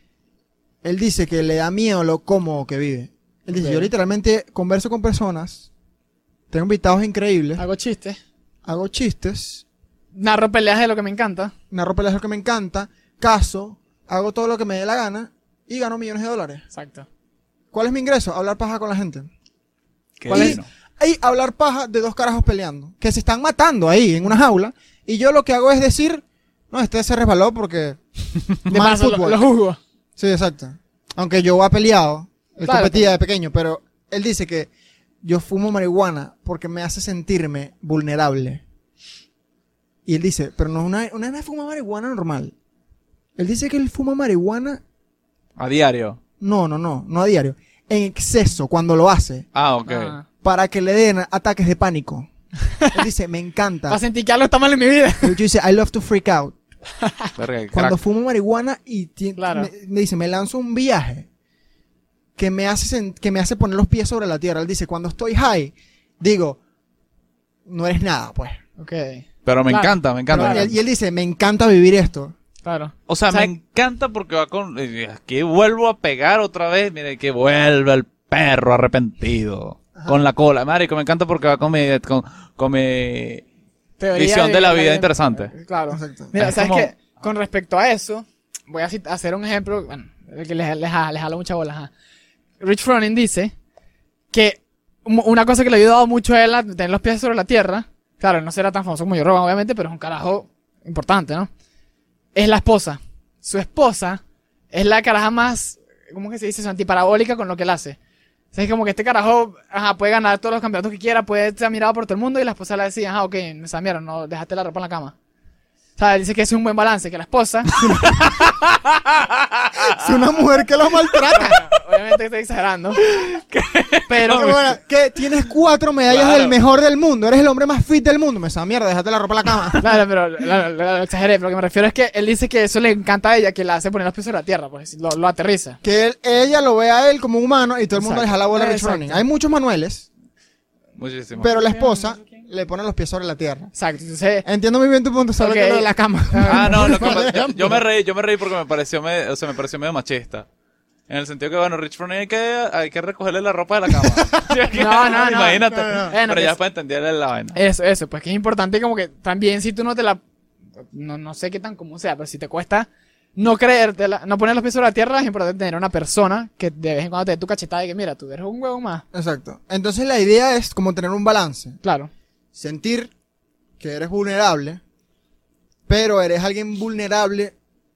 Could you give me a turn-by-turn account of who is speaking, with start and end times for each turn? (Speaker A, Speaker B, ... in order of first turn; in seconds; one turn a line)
Speaker A: 0.8-5.7
Speaker B: 3.5-3.9
Speaker A: 6.5-7.6
Speaker B: 7.6-8.2
Speaker A: 8.6-9.6
Speaker B: 10.1-11.5
Speaker A: 11.7-16.6
Speaker B: 16.7-17.1
Speaker A: 17.7-19.3
Speaker C: 20.2-20.6
Speaker B: 20.3-20.6
Speaker A: 20.3-28.0
Speaker A: 28.6-29.4
Speaker B: 28.7-29.8
Speaker A: 30.2-34.7
Speaker B: 32.6-33.1
Speaker A: 35.2-38.6
Speaker A: 40.0-42.5
Speaker A: 43.4-44.8
Speaker C: 45.6-46.2
Speaker A: 46.4-49.5
Speaker C: 49.5-50.1
Speaker B: 49.9-50.2
Speaker A: 50.4-52.3
Speaker A: 52.9-54.0
Speaker B: 53.9-55.4
Speaker A: 55.2-56.5
Speaker B: 57.0-57.3
Speaker C: 57.4-58.0
Speaker A: 57.7-61.3
Speaker B: 59.4-59.7
Speaker A: 62.4-66.6
Speaker A: 67.7-68.6
Speaker B: 68.8-70.7
Speaker C: 69.4-70.7
Speaker A: 70.3-72.3
Speaker B: 72.6-73.5
Speaker C: 73.1-83.4
Speaker A: 79.9-80.2
Speaker B: 84.0-91.9
Speaker C: 84.1-85.5
Speaker A: 85.9-86.3
Speaker C: 86.4-86.9
Speaker B: 92.6-93.5
Speaker B: 94.3-101.5
Speaker B: 102.3-108.0
Speaker B: 108.5-115.1
Speaker B: 116.0-118.2
Speaker A: 117.8-118.2
Speaker C: 118.0-120.1
Speaker A: 119.8-121.6
Speaker B: 121.3-123.0
Speaker C: 123.0-124.5
Speaker B: 124.1-124.7
Speaker A: 124.2-129.8
Speaker C: 126.1-126.5
Speaker B: 129.8-135.8
Speaker A: 135.8-140.1
Speaker B: 137.9-139.2
Speaker C: 140.9-141.5
Speaker B: 141.4-142.4
Speaker A: 141.4-143.7
Speaker B: 143.7-144.4
Speaker A: 144.4-147.8
Speaker B: 145.4-147.8
Speaker C: 146.5-150.4
Speaker C: 151.1-157.6
Speaker A: 154.0-156.1
Speaker B: 154.7-156.6
Speaker B: 157.5-160.2
Speaker B: 160.9-169.0
Speaker A: 169.1-171.8
Speaker B: 171.8-172.1
Speaker A: 172.5-173.1
Speaker A: 173.8-174.8
Speaker A: 175.9-177.5